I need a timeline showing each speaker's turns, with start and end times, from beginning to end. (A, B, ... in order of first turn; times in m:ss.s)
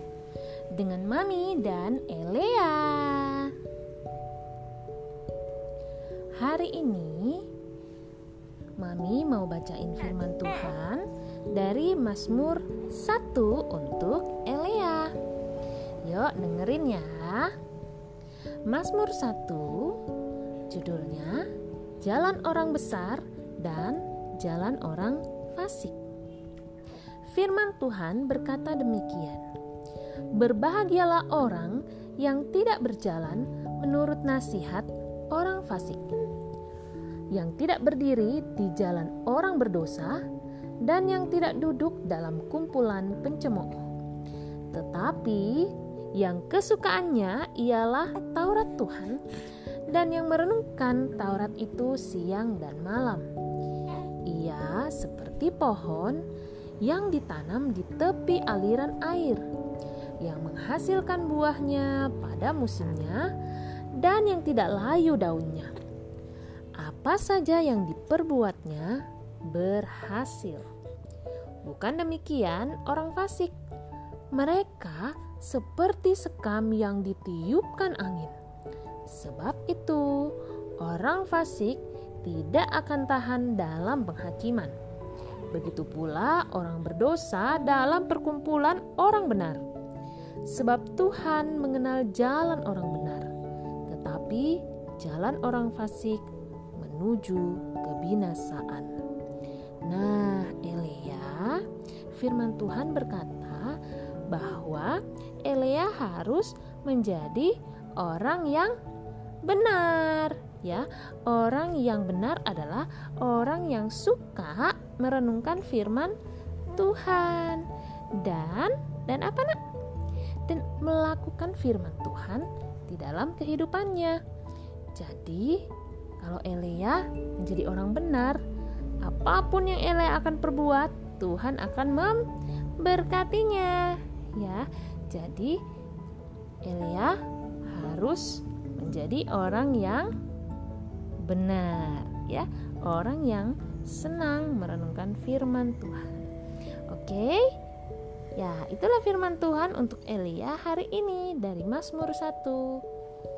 0:00.7-0:03.5 A
0:06.4-0:07.5 A
0:08.8-0:15.1 A
0:16.0-0:17.5 A
0:18.7-0:20.0 A
0:20.7-0:21.4 A
0:22.0-0:26.0 A
0:27.3-0:29.4 A
0:30.3-0:36.2 A
0:37.3-0:40.2 A
0:40.8-0:43.8 A
0:44.7-0:49.2 A
0:49.9-0:53.2 A
0:54.2-0:56.2 A
0:56.8-0:59.4 A
1:00.2-1:03.3 A
1:03.9-1:05.7 A
1:06.8-1:10.7 A
1:11.6-1:13.6 A
1:14.3-1:18.3 A
1:19.1-1:24.7 A
1:25.5-1:29.6 A
1:30.5-1:33.3 A
1:33.9-1:36.2 A
1:36.8-1:38.9 A
1:39.8-1:43.8 A
1:44.3-1:48.8 A
1:49.4-1:56.1 A
1:56.7-1:59.6 A
2:00.5-2:04.2 A
2:05.0-2:05.7 A
2:06.2-2:08.4 A
2:09.0-2:12.2 A
2:12.8-2:15.6 A
2:16.6-2:17.2 A
2:17.7-2:20.1 A
2:21.2-2:26.3 A
2:26.9-2:27.6 A
2:28.4-2:32.8 A